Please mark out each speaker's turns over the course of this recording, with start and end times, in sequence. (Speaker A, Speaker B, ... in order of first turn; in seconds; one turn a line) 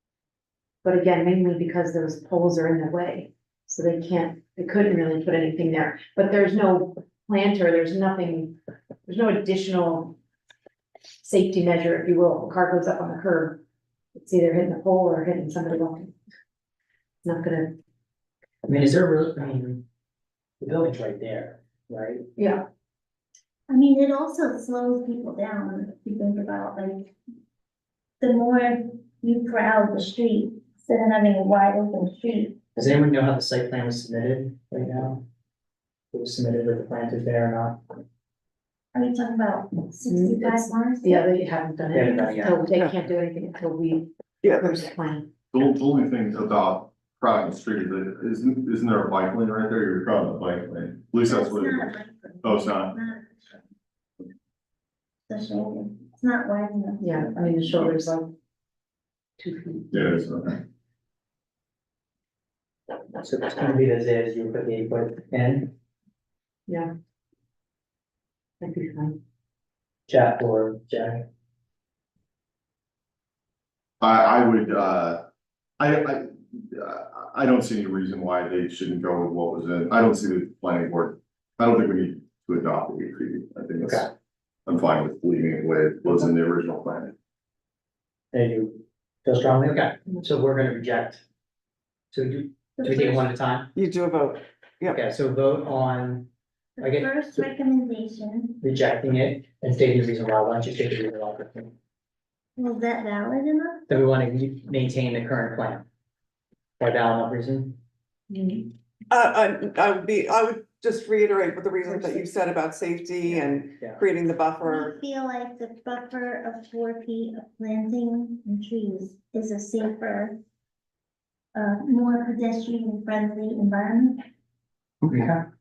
Speaker A: 0.8-10.2
Speaker A: 11.2-13.6
Speaker A: 14.2-16.1
Speaker A: 17.2-17.7
Speaker B: 18.6-19.8
Speaker B: 20.6-22.2
Speaker A: 22.4-22.6
Speaker C: 23.7-27.1
Speaker C: 28.2-32.9
Speaker B: 32.8-35.2
Speaker B: 36.1-37.8
Speaker C: 38.9-41.3
Speaker A: 40.1-45.3
Speaker B: 41.9-42.6
Speaker D: 44.4-44.8
Speaker E: 45.5-53.0
Speaker C: 51.3-53.6
Speaker C: 55.3-57.7
Speaker A: 57.0-58.3
Speaker A: 59.4-60.2
Speaker E: 59.9-60.6
Speaker B: 63.2-65.7
Speaker A: 68.6-69.2
Speaker B: 70.1-71.2
Speaker E: 74.0-75.2
Speaker E: 75.8-84.1
Speaker B: 83.8-84.1
Speaker E: 84.7-87.1
Speaker B: 88.3-91.2
Speaker B: 92.1-93.7
Speaker C: 92.8-93.3
Speaker D: 93.8-95.0
Speaker B: 94.9-97.5
Speaker C: 96.8-98.6
Speaker B: 98.6-101.7
Speaker C: 102.6-103.8
Speaker B: 103.9-105.8
Speaker B: 106.8-107.8
Speaker A: 108.3-108.7
Speaker D: 109.1-114.9
Speaker A: 111.8-112.2
Speaker B: 113.2-114.0
Speaker C: 114.6-120.4
Speaker C: 121.5-124.2
Speaker B: 125.0-125.4